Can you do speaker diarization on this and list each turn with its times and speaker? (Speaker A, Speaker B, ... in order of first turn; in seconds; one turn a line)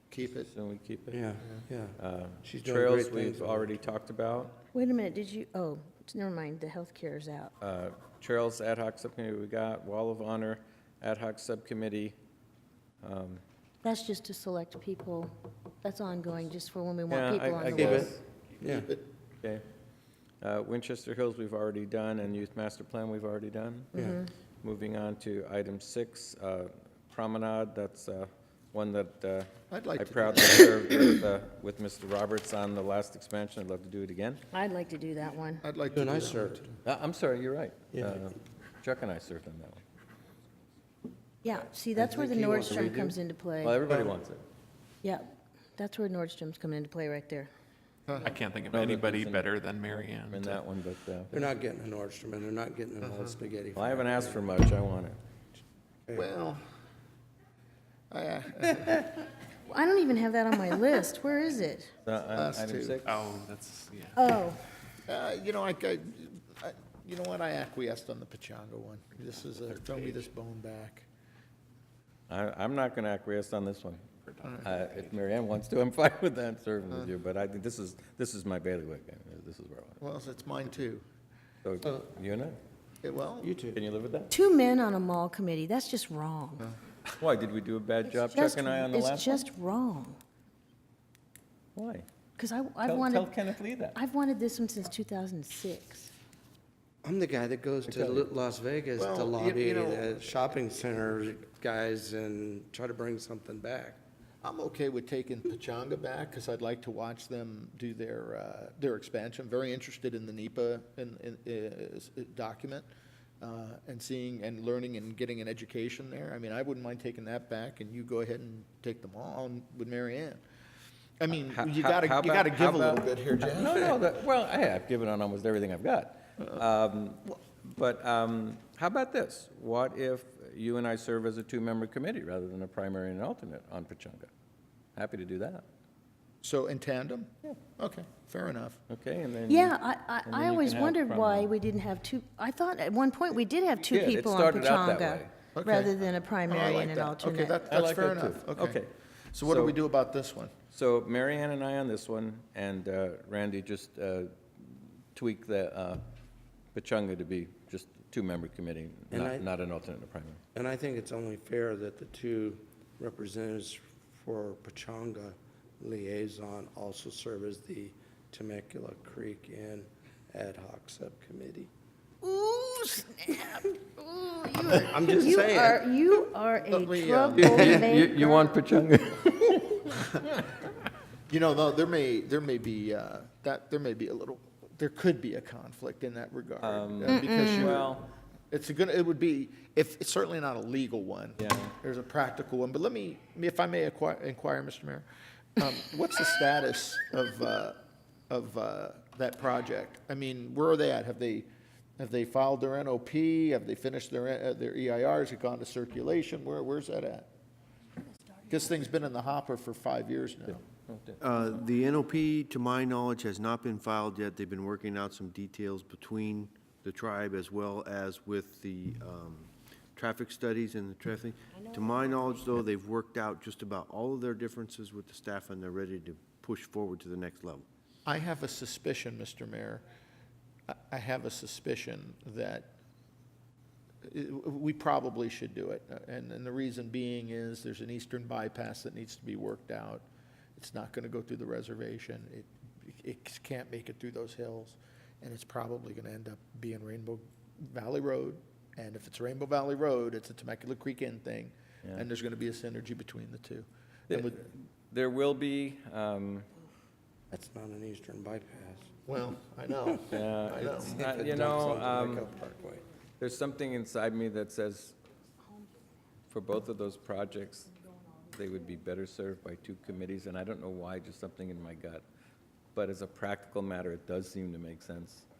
Speaker A: 0.1-0.5
Speaker B: 0.4-1.2
Speaker C: 1.1-3.8
Speaker B: 2.0-4.5
Speaker D: 4.7-7.5
Speaker B: 7.6-12.2
Speaker B: 13.0-13.4
Speaker D: 13.8-18.1
Speaker B: 17.1-18.2
Speaker C: 17.7-18.9
Speaker A: 18.7-19.0
Speaker B: 20.4-23.9
Speaker C: 24.0-24.2
Speaker D: 24.0-24.3
Speaker B: 24.6-34.4
Speaker A: 29.7-30.8
Speaker D: 34.5-35.6
Speaker A: 35.6-36.7
Speaker C: 36.0-36.7
Speaker B: 36.9-39.8
Speaker C: 37.9-38.2
Speaker D: 41.4-43.8
Speaker C: 42.0-43.2
Speaker B: 43.6-44.4
Speaker D: 45.0-47.5
Speaker A: 48.1-48.4
Speaker E: 48.2-50.6
Speaker B: 48.7-51.4
Speaker C: 51.3-54.4
Speaker B: 53.7-55.2
Speaker A: 56.1-56.6
Speaker A: 58.1-59.2
Speaker D: 59.7-61.9
Speaker B: 62.0-63.2
Speaker A: 62.3-63.0
Speaker E: 63.0-64.2
Speaker D: 64.2-64.6
Speaker A: 65.1-71.1
Speaker B: 72.3-74.0
Speaker B: 74.6-80.0
Speaker A: 80.0-81.0
Speaker B: 81.6-82.6
Speaker A: 83.0-83.5
Speaker C: 83.4-83.8
Speaker B: 83.7-84.3
Speaker D: 84.3-86.7
Speaker B: 87.2-89.5
Speaker D: 88.1-90.2
Speaker B: 91.8-92.1
Speaker D: 92.4-93.3
Speaker B: 92.8-94.0
Speaker D: 94.0-96.1
Speaker C: 97.0-104.0
Speaker B: 97.8-98.3
Speaker A: 99.0-100.6
Speaker A: 104.4-112.9
Speaker A: 113.4-120.4
Speaker A: 121.2-124.0
Speaker B: 121.5-134.3
Speaker B: 135.0-135.7
Speaker A: 136.4-138.8
Speaker B: 138.9-141.5
Speaker D: 139.5-147.6
Speaker B: 143.9-145.3
Speaker A: 145.6-148.8
Speaker B: 147.7-148.9
Speaker A: 149.3-150.5
Speaker B: 149.4-149.8
Speaker B: 150.7-154.4
Speaker B: 155.1-156.0
Speaker B: 156.8-160.4
Speaker C: 159.1-159.5
Speaker C: 160.5-171.7
Speaker D: 172.2-178.6
Speaker C: 174.7-175.9
Speaker A: 176.7-177.9
Speaker B: 177.4-180.2
Speaker C: 177.6-177.9
Speaker A: 181.3-195.1
Speaker B: 186.6-188.1
Speaker D: 187.1-187.8
Speaker B: 191.4-191.8
Speaker A: 195.6-197.8
Speaker A: 198.3-201.5
Speaker A: 202.0-207.3
Speaker A: 208.5-210.6
Speaker B: 210.9-211.2
Speaker F: 211.2-227.7
Speaker A: 228.1-229.8
Speaker A: 230.7-232.7
Speaker A: 234.0-240.1
Speaker A: 240.6-254.5
Speaker B: 254.9-256.5
Speaker C: 257.3-259.0
Speaker A: 259.1-261.0
Speaker B: 260.1-262.3
Speaker C: 260.6-262.8
Speaker B: 263.2-265.0
Speaker B: 266.3-267.7
Speaker B: 268.3-272.0
Speaker B: 272.8-275.2